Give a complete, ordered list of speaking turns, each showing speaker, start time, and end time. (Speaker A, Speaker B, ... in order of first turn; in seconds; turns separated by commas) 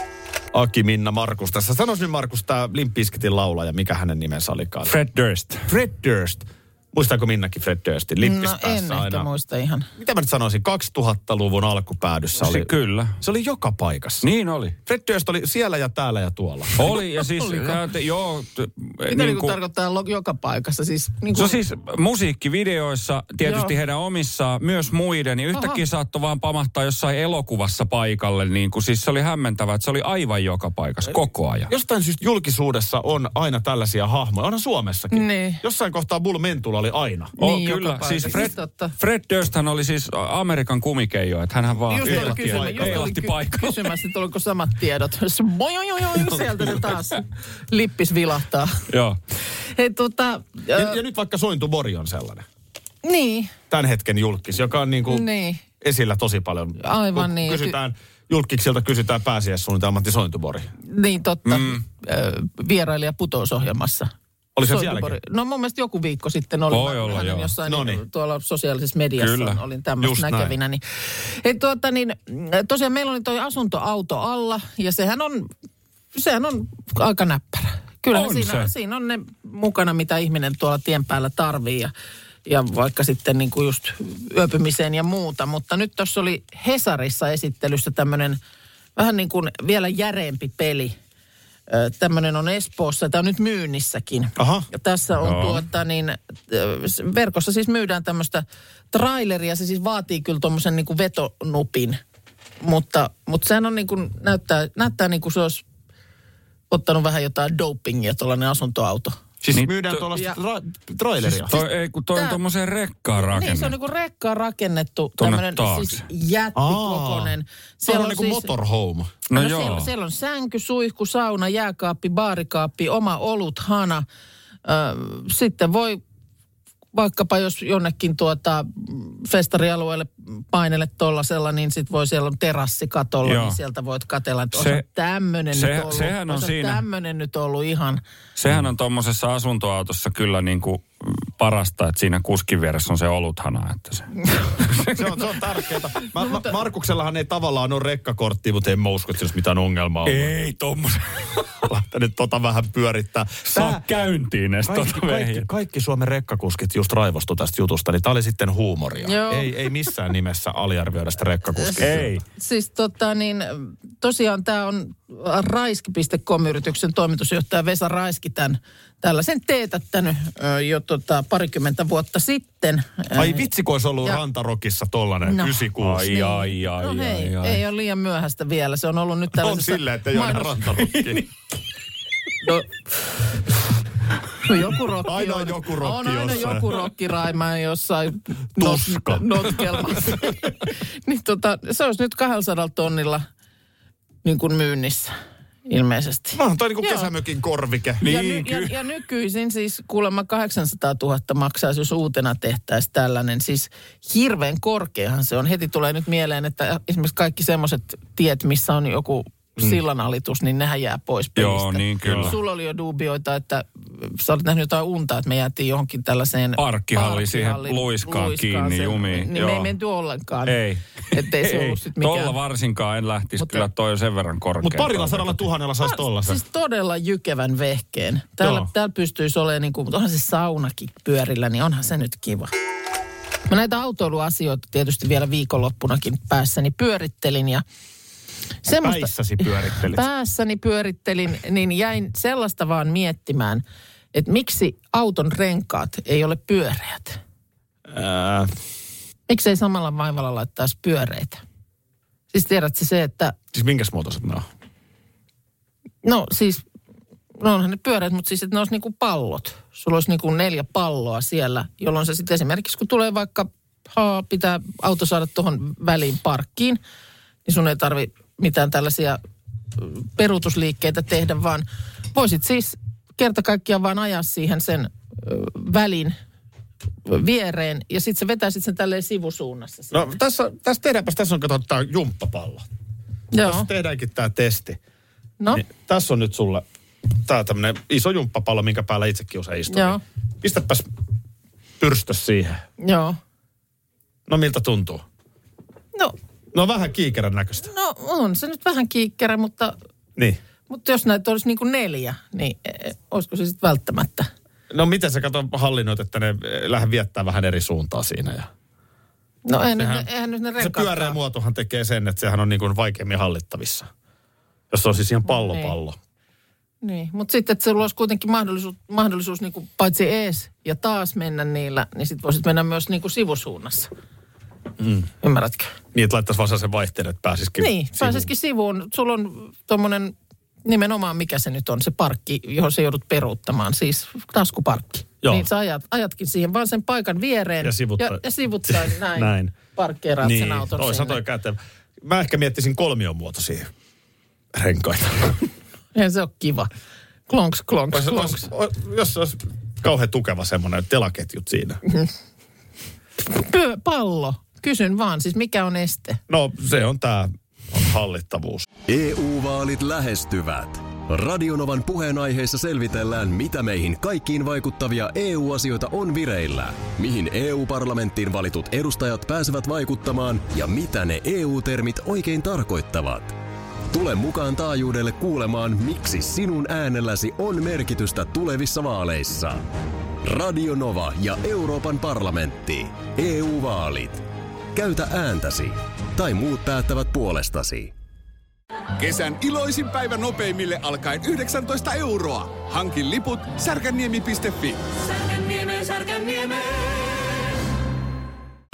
Speaker A: 0.5-4.9, Speaker B: 4.9-5.7, Speaker A: 5.7-9.3, Speaker C: 8.2-9.9, Speaker A: 10.0-14.3, Speaker B: 12.4-13.2, Speaker B: 14.2-14.8, Speaker A: 14.9-16.9, Speaker B: 16.8-19.6, Speaker C: 17.2-17.8, Speaker C: 19.1-21.6, Speaker B: 21.4-31.7, Speaker C: 23.4-23.7, Speaker C: 25.5-25.8, Speaker A: 31.7-37.3, Speaker C: 35.1-35.6, Speaker C: 37.4-39.0, Speaker B: 37.4-43.9, Speaker C: 41.9-48.8, Speaker A: 42.0-43.1, Speaker B: 48.9-49.2, Speaker C: 49.7-51.0, Speaker A: 50.7-52.5, Speaker C: 53.0-53.5, Speaker A: 53.7-55.3, Speaker C: 55.1-55.6, Speaker A: 55.8-60.7, Speaker C: 56.8-57.8, Speaker C: 60.9-64.1, Speaker B: 61.5-61.8, Speaker A: 64.6-65.2, Speaker C: 64.6-75.5, Speaker B: 66.7-67.5, Speaker A: 67.7-68.0, Speaker B: 69.2-69.6, Speaker A: 70.0-70.6, Speaker C: 76.1-81.9, Speaker B: 78.1-78.7, Speaker C: 82.5-88.4, Speaker C: 89.0-91.0, Speaker C: 91.7-102.0, Speaker A: 94.4-94.7, Speaker B: 95.2-95.6, Speaker C: 102.6-105.6, Speaker C: 106.7-109.2, Speaker A: 109.4-111.6, Speaker B: 109.5-110.0, Speaker B: 111.3-113.7, Speaker C: 111.5-112.4, Speaker C: 113.2-118.5, Speaker B: 115.2-116.0, Speaker A: 116.5-119.1, Speaker B: 119.3-119.9, Speaker C: 119.3-124.0, Speaker C: 124.7-126.0, Speaker C: 126.9-138.0, Speaker B: 133.2-133.6, Speaker B: 134.5-134.8, Speaker B: 135.5-136.8, Speaker B: 138.4-144.8, Speaker A: 144.9-150.3, Speaker C: 146.2-146.5, Speaker B: 150.1-151.6, Speaker A: 151.7-153.8, Speaker B: 153.5-155.5, Speaker A: 154.7-162.1, Speaker C: 159.0-159.5, Speaker C: 161.6-161.8, Speaker B: 161.8-162.2, Speaker C: 162.4-173.5, Speaker A: 173.1-176.1, Speaker C: 175.2-181.2, Speaker B: 175.8-177.6, Speaker A: 179.3-181.3, Speaker C: 182.4-182.7, Speaker C: 184.4-193.3, Speaker A: 185.0-186.8, Speaker A: 188.6-190.2, Speaker C: 194.2-195.1, Speaker C: 195.7-197.1, Speaker A: 196.3-198.0, Speaker B: 198.0-198.8, Speaker C: 198.0-220.6, Speaker B: 211.4-212.4, Speaker A: 212.0-212.3, Speaker B: 216.6-219.7, Speaker B: 220.5-225.5, Speaker C: 221.1-222.3, Speaker C: 223.4-223.6, Speaker A: 224.6-226.4, Speaker C: 225.8-232.5, Speaker A: 228.4-228.7, Speaker C: 233.5-237.6, Speaker C: 238.6-247.2, Speaker A: 238.8-240.1, Speaker A: 247.9-248.5, Speaker C: 249.3-251.4, Speaker C: 252.3-253.3, Speaker A: 253.5-254.5, Speaker C: 256.0-256.6, Speaker C: 257.4-266.8, Speaker C: 267.5-269.2, Speaker C: 269.8-276.2, Speaker C: 277.1-280.1, Speaker A: 279.9-282.7, Speaker C: 283.3-283.7, Speaker A: 283.4-284.8, Speaker A: 285.5-290.9, Speaker C: 289.7-290.0, Speaker A: 291.8-292.6, Speaker C: 292.8-293.2, Speaker A: 294.3-295.0, Speaker A: 296.5-297.7, Speaker C: 297.6-299.8, Speaker C: 300.7-304.3, Speaker A: 304.7-308.5, Speaker C: 309.5-311.2, Speaker A: 309.8-313.9, Speaker A: 314.7-316.0, Speaker C: 315.3-315.8, Speaker C: 316.8-323.9, Speaker A: 324.8-325.1, Speaker C: 325.2-325.7, Speaker A: 325.9-328.3, Speaker C: 327.6-330.1, Speaker C: 330.6-341.2, Speaker A: 337.6-339.6, Speaker A: 340.2-343.7, Speaker A: 344.5-345.4, Speaker C: 345.9-346.7, Speaker C: 347.3-348.5, Speaker A: 347.9-351.8, Speaker C: 353.2-356.2, Speaker A: 356.3-358.7, Speaker D: 358.9-373.4, Speaker D: 373.9-379.6, Speaker D: 380.2-384.2, Speaker D: 384.8-387.9, Speaker E: 389.0-396.9